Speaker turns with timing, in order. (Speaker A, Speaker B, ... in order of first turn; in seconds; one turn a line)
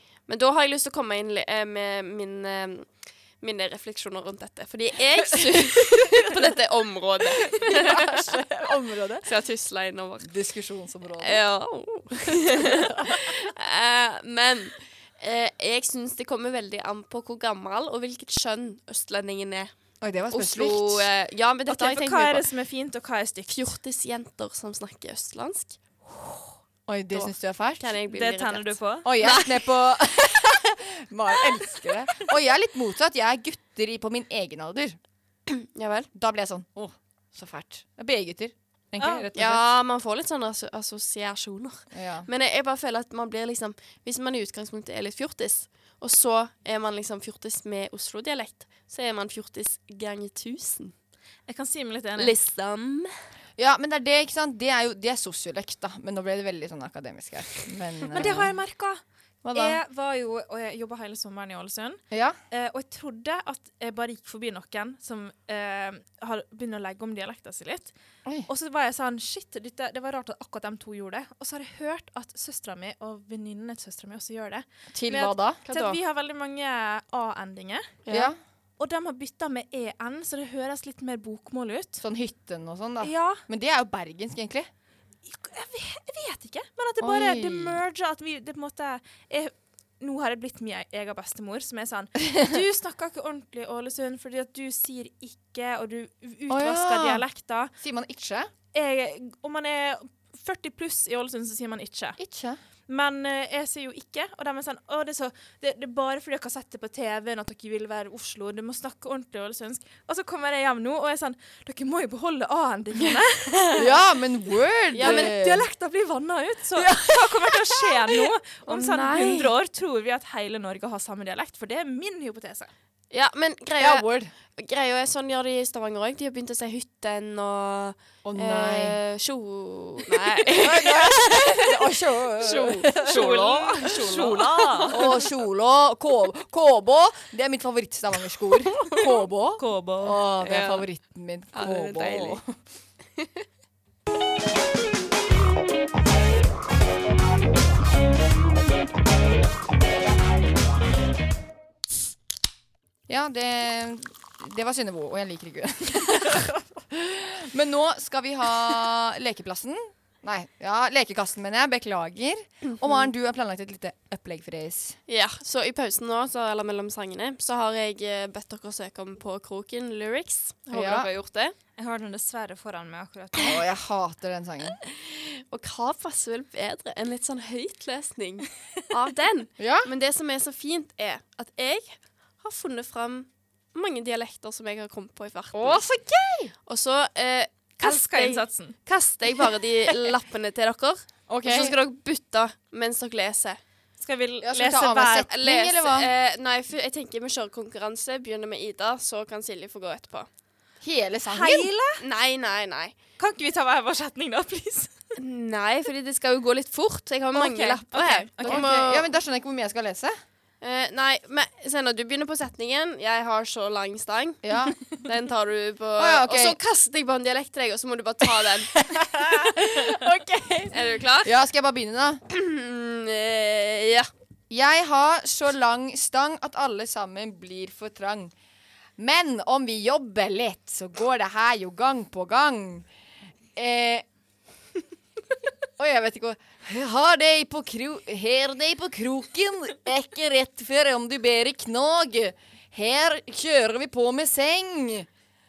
Speaker A: 0.3-8.0
Speaker B: 7.7-9.3
Speaker A: 9.2-10.3
Speaker B: 10.2-11.4
Speaker A: 11.2-19.7
Speaker B: 20.0-21.1
Speaker A: 20.3-22.4
Speaker C: 21.7-23.6
Speaker A: 23.5-25.8
Speaker B: 26.9-27.8
Speaker A: 27.8-29.5
Speaker C: 28.1-29.3
Speaker B: 29.0-35.0
Speaker A: 35.7-36.1
Speaker B: 36.1-39.6
Speaker C: 39.0-39.3
Speaker A: 39.3-50.9
Speaker B: 41.9-42.3
Speaker C: 51.5-52.3
Speaker A: 52.2-53.1
Speaker B: 53.6-58.5
Speaker C: 58.1-59.0
Speaker B: 59.4-59.8
Speaker C: 59.5-67.9
Speaker B: 62.1-62.4
Speaker C: 68.5-78.0
Speaker B: 74.9-75.6
Speaker A: 75.7-76.0
Speaker A: 78.0-78.3
Speaker B: 78.1-78.4
Speaker C: 78.8-82.0
Speaker B: 82.0-84.7
Speaker C: 83.0-83.4
Speaker C: 85.3-97.7
Speaker B: 87.0-87.8
Speaker B: 96.5-97.2
Speaker B: 97.8-98.5
Speaker C: 98.7-102.2
Speaker B: 102.2-102.6
Speaker C: 102.9-113.8
Speaker B: 113.8-115.7
Speaker A: 114.9-115.3
Speaker C: 115.0-122.7
Speaker B: 116.7-118.2
Speaker A: 118.7-119.5
Speaker A: 123.1-131.7
Speaker B: 123.8-124.3
Speaker B: 128.2-128.9
Speaker B: 130.5-133.5
Speaker A: 132.4-135.0
Speaker C: 133.0-135.0
Speaker B: 134.9-142.4
Speaker C: 139.6-140.2
Speaker A: 140.4-140.8
Speaker A: 141.5-142.4
Speaker B: 153.1-165.0
Speaker A: 165.1-171.6
Speaker B: 170.7-171.1
Speaker C: 171.8-173.6
Speaker B: 173.4-174.8
Speaker A: 174.9-185.8
Speaker B: 179.6-179.9
Speaker B: 185.5-186.5
Speaker A: 186.7-193.6
Speaker C: 187.8-188.7
Speaker B: 191.3-191.8
Speaker C: 194.0-195.3
Speaker B: 194.4-196.1
Speaker A: 195.2-200.3
Speaker B: 200.8-201.7
Speaker C: 201.2-202.0
Speaker A: 202.0-202.9
Speaker C: 203.2-204.9
Speaker A: 205.2-209.1
Speaker C: 207.3-208.7
Speaker B: 208.4-210.1
Speaker A: 210.6-218.7
Speaker B: 214.4-214.8
Speaker B: 216.0-216.6
Speaker B: 218.7-222.2
Speaker A: 220.7-221.3
Speaker A: 222.3-224.1
Speaker B: 224.5-228.3
Speaker B: 229.0-232.8
Speaker B: 233.6-234.0
Speaker B: 235.8-245.1